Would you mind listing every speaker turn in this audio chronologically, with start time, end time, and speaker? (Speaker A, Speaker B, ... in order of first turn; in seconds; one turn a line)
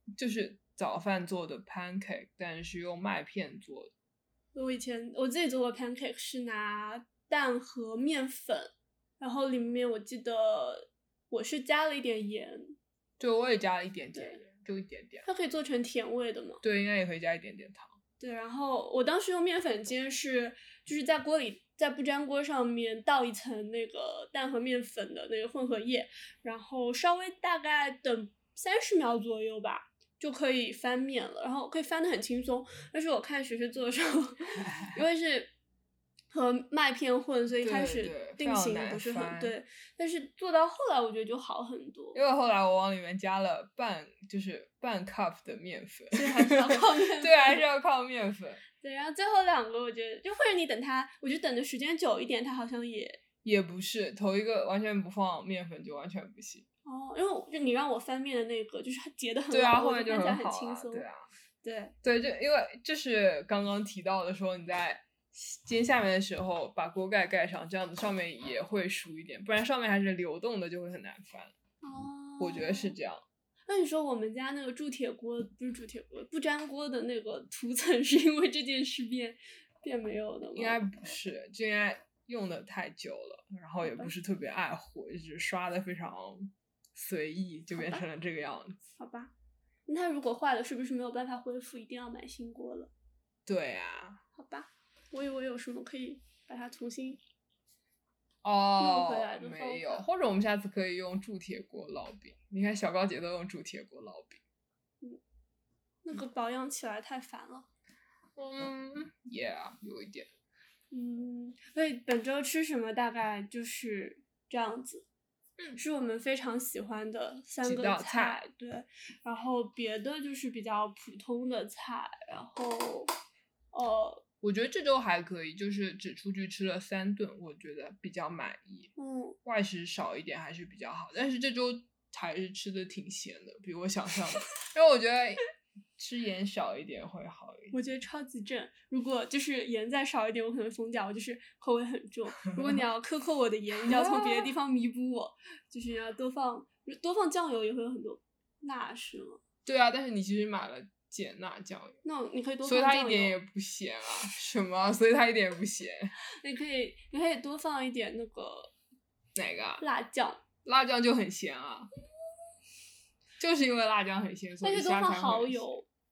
Speaker A: 0.2-3.9
Speaker B: 4.5-12.8
Speaker A: 13.2-15.3
Speaker B: 14.1-14.4
Speaker B: 15.2-16.6
Speaker A: 16.6-18.0
Speaker B: 18.2-35.5
Speaker B: 36.3-42.2
Speaker A: 37.6-39.5
Speaker A: 42.1-48.6
Speaker B: 46.1-47.6
Speaker B: 48.8-53.2
Speaker A: 53.4-56.6
Speaker B: 56.8-61.0
Speaker A: 59.5-61.3
Speaker B: 61.6-61.9
Speaker A: 62.0-71.5
Speaker B: 71.8-73.0
Speaker A: 72.4-73.2
Speaker B: 73.7-80.8
Speaker A: 80.5-88.8
Speaker B: 83.8-84.1
Speaker B: 87.7-88.0
Speaker B: 89.0-89.3
Speaker B: 89.9-92.9
Speaker A: 93.5-94.2
Speaker B: 94.3-97.2
Speaker A: 98.4-104.4
Speaker B: 98.8-100.0
Speaker B: 106.0-107.7
Speaker A: 108.3-110.3
Speaker B: 110.9-115.0
Speaker B: 115.8-123.1
Speaker A: 117.6-118.4
Speaker B: 123.7-124.2
Speaker A: 124.4-128.9
Speaker B: 129.0-129.4
Speaker A: 129.4-135.4
Speaker A: 135.9-137.8
Speaker B: 137.7-149.4
Speaker A: 143.8-144.5
Speaker A: 149.6-152.0
Speaker B: 152.0-153.3
Speaker A: 152.6-156.1
Speaker B: 156.4-158.7
Speaker A: 159.3-159.8
Speaker B: 159.8-160.4
Speaker A: 160.6-161.9
Speaker A: 163.4-165.8
Speaker B: 164.6-165.9